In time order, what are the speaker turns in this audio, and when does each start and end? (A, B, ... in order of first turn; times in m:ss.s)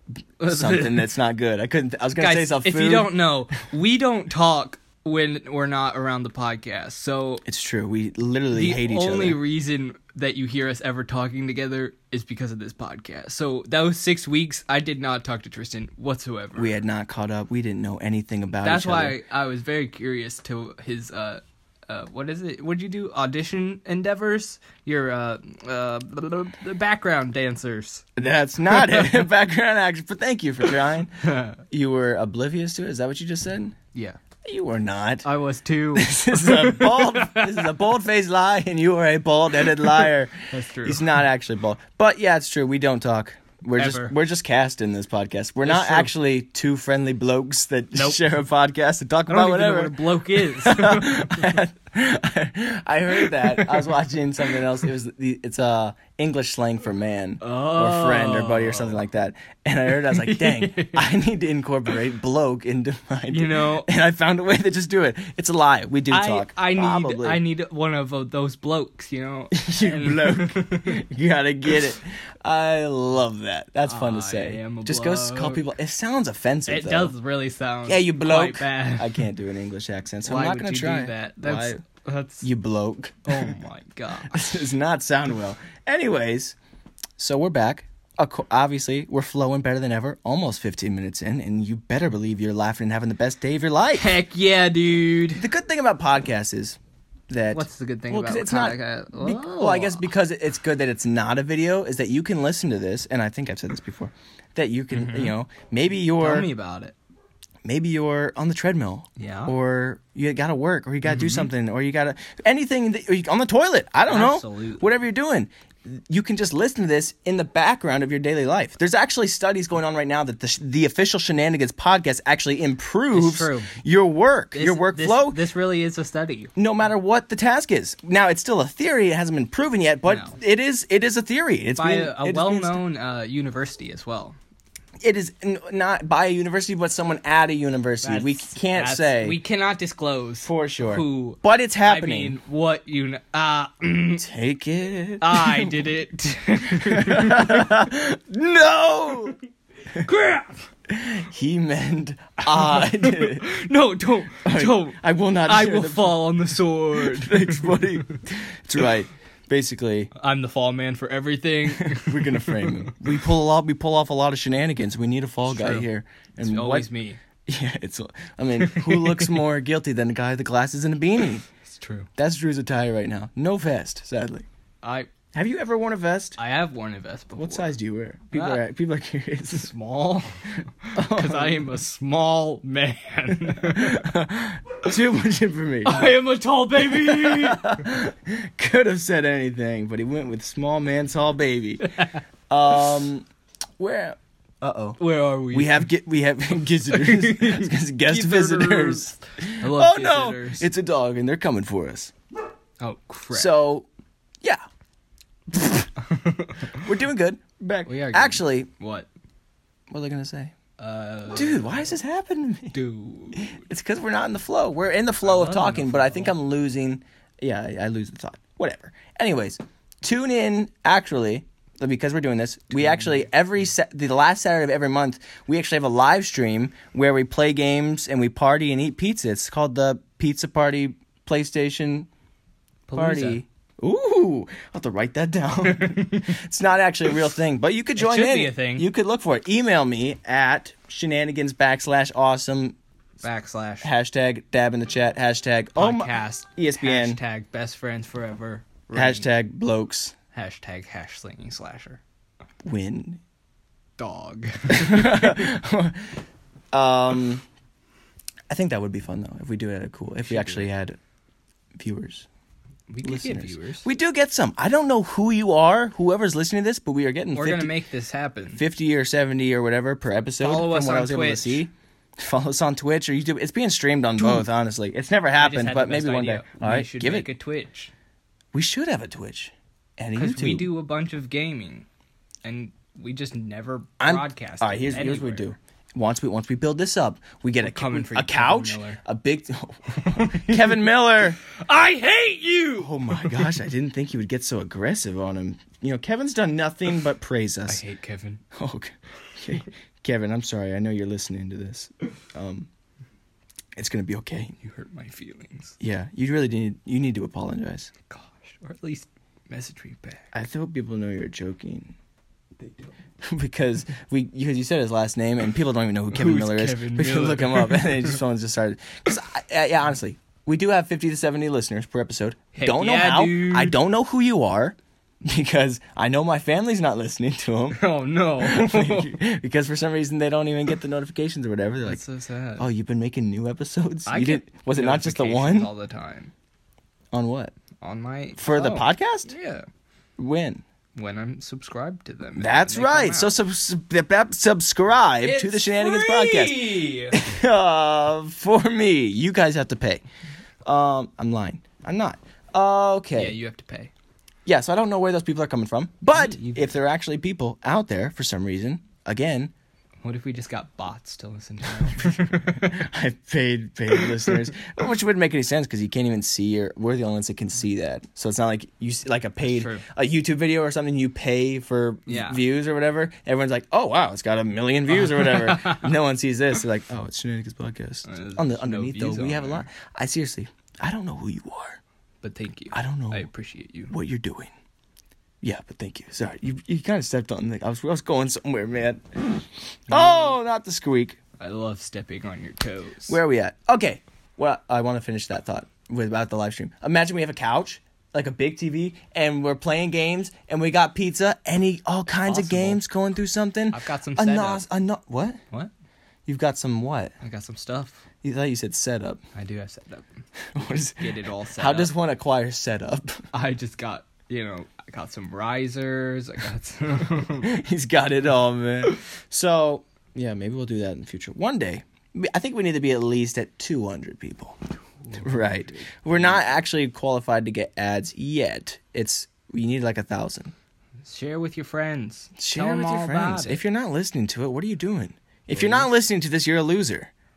0:00.4-0:01.1 A
0:00.4-0:03.1 B
0:02.2-0:07.4 A
0:07.4-0:09.4 B
0:08.5-0:16.7 A
0:16.6-0:19.2 B
0:18.6-0:28.1 A
0:28.2-0:33.8 B
0:28.7-0:29.2 A
0:31.2-0:31.6 A
0:34.4-0:35.2 B
0:35.2-0:37.7 A
0:35.9-1:07.4 B
0:40.5-0:41.2 A
0:43.8-0:44.1 A
0:45.6-0:46.1 A
0:48.0-0:48.2 A
0:49.3-0:51.6 A
0:53.2-0:53.9 A
0:57.4-0:59.0 A
0:59.9-1:01.1 A
1:03.3-1:03.9 A
1:06.1-1:11.0 A
1:09.5-1:17.1 B
1:13.8-1:15.6 A
1:16.7-1:19.3 A
1:17.9-1:21.8 B
1:20.2-1:22.4 A
1:22.4-1:23.6 B
1:23.2-1:24.5 A
1:24.3-1:26.6 B
1:27.2-1:34.2 B
1:33.9-1:35.4 A
1:35.4-1:36.8 B
1:37.3-1:46.5 B
1:37.5-1:40.0 A
1:44.9-1:45.3 A
1:46.2-1:46.9 A
1:47.6-2:05.4 B
1:49.2-1:49.5 A
1:51.0-1:51.5 A
1:54.1-1:54.9 A
2:03.1-2:03.7 A
2:04.5-2:06.5 A
2:06.6-2:12.8 B
2:10.0-2:10.4 A
2:11.8-2:14.4 A
2:15.0-2:19.4 B
2:18.0-2:24.2 A
2:20.4-2:22.4 B
2:24.2-2:25.9 B
2:25.2-2:27.7 A
2:26.8-2:29.4 B
2:30.0-2:30.7 A
2:30.9-2:33.5 B
2:32.4-2:38.2 A
2:34.4-2:36.2 B
2:36.9-2:40.1 B
2:40.1-2:42.9 A
2:41.7-2:46.9 B
2:45.4-2:47.2 A
2:47.4-2:51.4 B
2:48.6-2:49.3 A
2:51.6-2:52.1 A
2:52.2-2:54.5 B
2:54.8-2:55.1 A
2:55.3-2:56.4 B
2:56.4-2:57.7 A
2:57.3-2:59.7 B
2:58.3-2:58.6 A
2:59.5-3:04.0 A
3:00.9-3:01.7 B
3:03.3-3:06.2 B
3:05.8-3:07.8 A
3:06.8-3:13.2 B
3:11.8-3:12.2 A
3:13.8-3:15.0 B
3:15.0-3:15.9 A
3:15.5-3:22.1 B
3:16.9-3:20.7 A
3:22.8-3:23.6 A
3:23.3-3:23.8 B
3:25.5-3:25.9 B
3:26.0-3:26.8 A
3:26.8-3:28.7 B
3:27.8-3:29.1 A
3:29.9-3:30.5 B
3:30.8-3:31.9 A
3:31.3-3:32.7 B
3:32.7-3:33.6 A
3:33.3-3:52.1 B
3:35.2-3:36.4 A
3:42.8-3:43.2 A
3:52.9-3:53.4 A
3:52.9-4:02.8 B
3:55.6-3:56.4 A
3:58.0-3:58.9 A
4:03.2-4:03.9 A
4:03.8-4:07.2 B
4:05.8-4:09.3 A
4:08.9-4:10.1 B
4:10.3-4:12.0 A
4:12.6-4:13.2 B
4:14.0-4:15.5 A
4:14.7-4:16.2 B
4:16.7-4:17.4 B
4:18.5-4:21.0 B
4:20.2-4:20.7 A
4:21.8-4:22.2 B
4:22.9-4:23.9 A
4:23.0-4:27.7 B
4:27.3-4:28.6 A
4:28.5-4:37.3 B
4:30.4-4:31.6 A
4:35.4-4:37.9 A
4:38.5-4:40.7 B
4:40.2-4:41.8 A
4:42.4-4:45.4 A
4:44.0-4:51.4 B
4:47.5-4:49.0 A
4:50.0-4:50.9 A
4:51.4-4:53.6 A
4:52.8-4:57.8 B
4:57.7-4:58.4 A
4:58.5-5:02.7 B
5:03.8-5:04.6 B
5:04.6-5:05.8 A
5:05.8-5:07.9 B
5:08.1-5:10.3 A
5:10.3-5:11.9 B
5:13.2-5:27.8 B
5:16.1-5:18.2 A
5:22.5-5:23.8 A
5:27.7-5:29.2 A
5:28.4-5:32.0 B
5:31.8-5:32.6 A
5:32.6-5:35.7 B
5:34.1-5:36.3 A
5:37.1-5:37.5 B
5:37.8-5:39.6 A
5:38.4-5:39.3 B
5:40.2-5:40.6 B
5:41.0-5:43.3 A
5:42.4-5:50.0 B
5:45.2-5:47.2 A
5:50.6-5:53.4 B
5:53.1-5:53.9 A
5:54.4-5:59.5 B
5:56.1-5:56.7 A
6:00.0-6:02.9 A
6:01.8-6:21.8 B
6:03.9-6:04.4 A
6:09.4-6:09.8 A
6:12.1-6:12.4 A
6:14.9-6:15.9 A
6:18.0-6:19.7 A
6:22.2-6:23.9 A
6:22.7-6:23.3 B
6:23.9-6:24.5 B
6:25.4-6:31.2 B
6:29.9-6:30.4 A
6:31.4-6:33.2 A
6:33.1-6:45.4 B
6:42.2-6:42.8 A
6:43.7-6:44.6 A
6:46.2-6:47.1 B
6:47.2-6:48.0 A
6:48.2-6:49.2 B
6:49.3-6:51.9 A
6:50.5-6:53.2 B
6:53.3-6:57.5 A
6:57.4-7:04.6 B
7:05.0-7:06.5 A
7:05.2-7:10.5 B
7:11.0-7:13.6 A
7:12.4-7:17.1 B
7:15.5-7:15.9 A